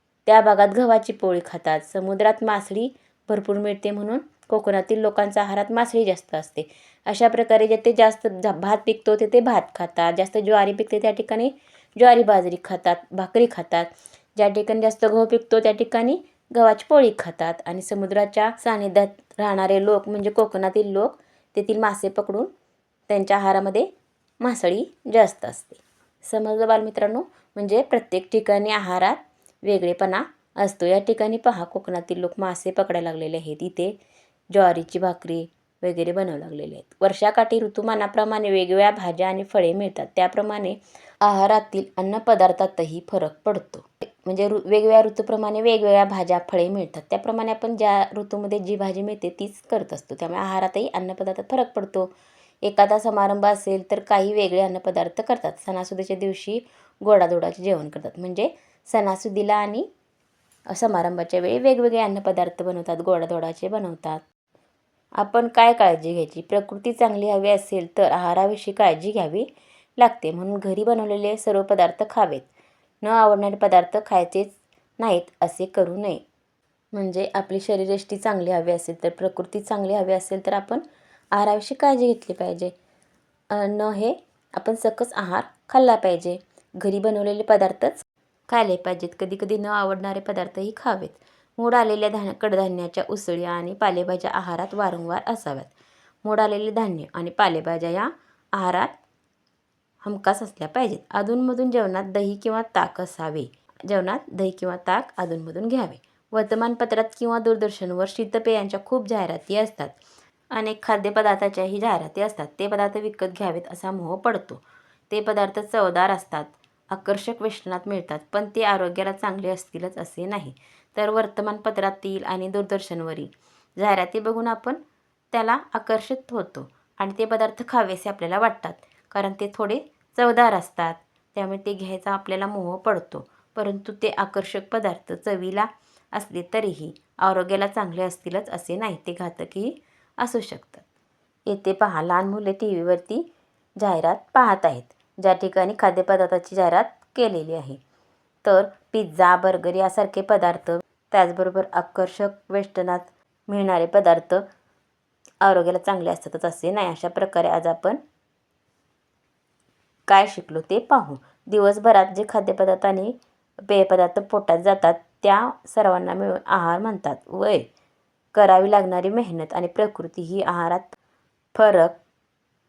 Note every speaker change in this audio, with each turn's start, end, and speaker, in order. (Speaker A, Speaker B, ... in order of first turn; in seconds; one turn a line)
Speaker A: 0.3-22.5
Speaker A: 23.1-23.9
Speaker A: 24.4-34.0
Speaker A: 34.5-59.9
Speaker A: 60.7-64.2
Speaker A: 65.2-72.5
Speaker A: 73.0-76.2
Speaker A: 76.9-82.7
Speaker A: 83.5-95.7
Speaker A: 96.2-99.0
Speaker A: 100.0-110.0
Speaker A: 110.5-124.8
Speaker A: 125.3-140.9
Speaker A: 141.5-143.2
Speaker A: 143.8-147.8
Speaker A: 148.4-154.4
Speaker A: 155.4-158.0
Speaker A: 160.1-167.7
Speaker A: 168.3-171.0
Speaker A: 171.6-172.0